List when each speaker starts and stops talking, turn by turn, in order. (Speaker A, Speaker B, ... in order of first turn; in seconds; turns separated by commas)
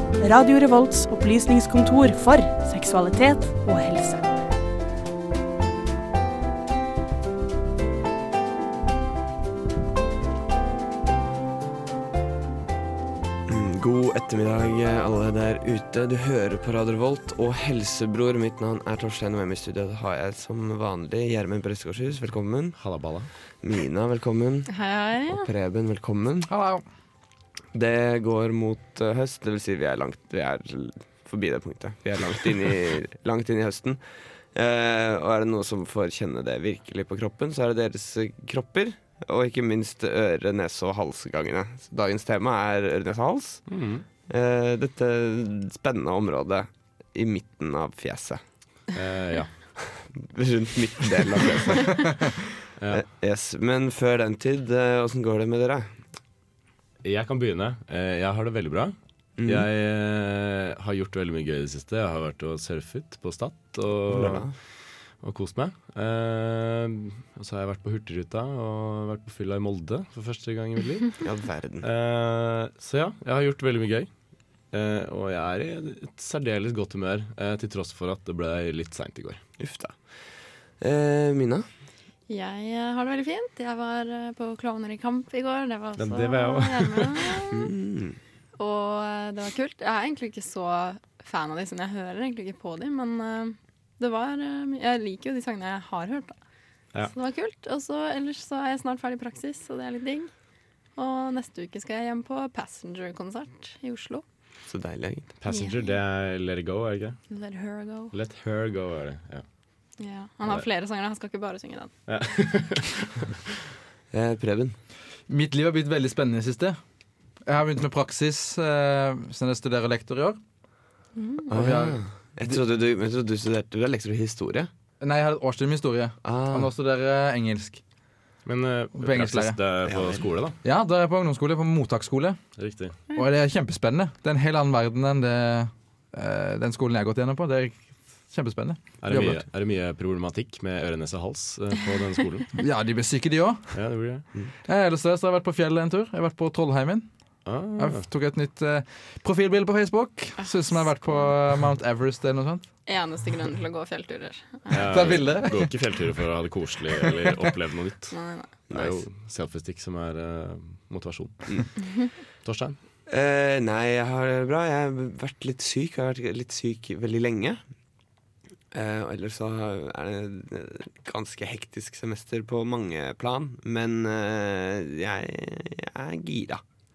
Speaker A: 0.2-4.5, Speaker B: 13.5-22.8, Speaker C: 22.8-23.3, Speaker B: 23.6-24.7, Speaker D: 24.7-25.5, Speaker B: 25.3-26.5, Speaker E: 26.5-26.8, Speaker B: 27.7-34.0, Speaker B: 34.5-43.6, Speaker C: 43.7-44.0, Speaker B: 44.3-48.4, Speaker C: 48.9-49.5, Speaker B: 49.9-55.9, Speaker C: 52.8-53.0, Speaker C: 57.0-64.5, Speaker B: 59.4-59.7, Speaker B: 64.1-64.5, Speaker C: 65.2-71.2, Speaker B: 71.2-71.9, Speaker C: 71.8-74.1, Speaker C: 74.7-79.4, Speaker B: 79.6-80.0, Speaker B: 80.8-81.7, Speaker D: 82.3-87.7, Speaker C: 86.0-87.2, Speaker B: 87.5-88.2, Speaker D: 88.6-96.4, Speaker D: 97.1-100.3, Speaker D: 101.0-104.2, Speaker B: 104.7-105.3, Speaker C: 105.4-107.2, Speaker D: 105.5-105.9, Speaker D: 107.3-108.1, Speaker C: 108.1-109.4, Speaker D: 110.0-111.9, Speaker C: 112.1-113.3, Speaker B: 114.1-114.8, Speaker E: 115.3-116.8, Speaker E: 117.5-120.4, Speaker D: 121.2-121.5, Speaker E: 121.5-122.6, Speaker B: 121.5-124.7, Speaker E: 125.0-127.8, Speaker B: 126.2-126.7, Speaker C: 128.4-130.6, Speaker E: 129.0-129.6, Speaker B: 129.8-130.2, Speaker E: 130.6-132.4, Speaker C: 132.6-133.0, Speaker E: 133.1-139.4, Speaker C: 139.0-142.5, Speaker E: 142.6-143.8, Speaker C: 143.7-144.2, Speaker E: 144.6-147.1, Speaker C: 147.4-148.1, Speaker E: 147.8-152.7, Speaker D: 150.4-151.3, Speaker D: 152.8-155.0, Speaker C: 154.7-158.2, Speaker E: 154.8-155.9, Speaker E: 157.0-157.5, Speaker D: 158.1-158.5, Speaker C: 158.7-161.9, Speaker B: 158.7-159.0, Speaker C: 162.4-162.8, Speaker B: 163.1-167.6, Speaker B: 168.7-176.6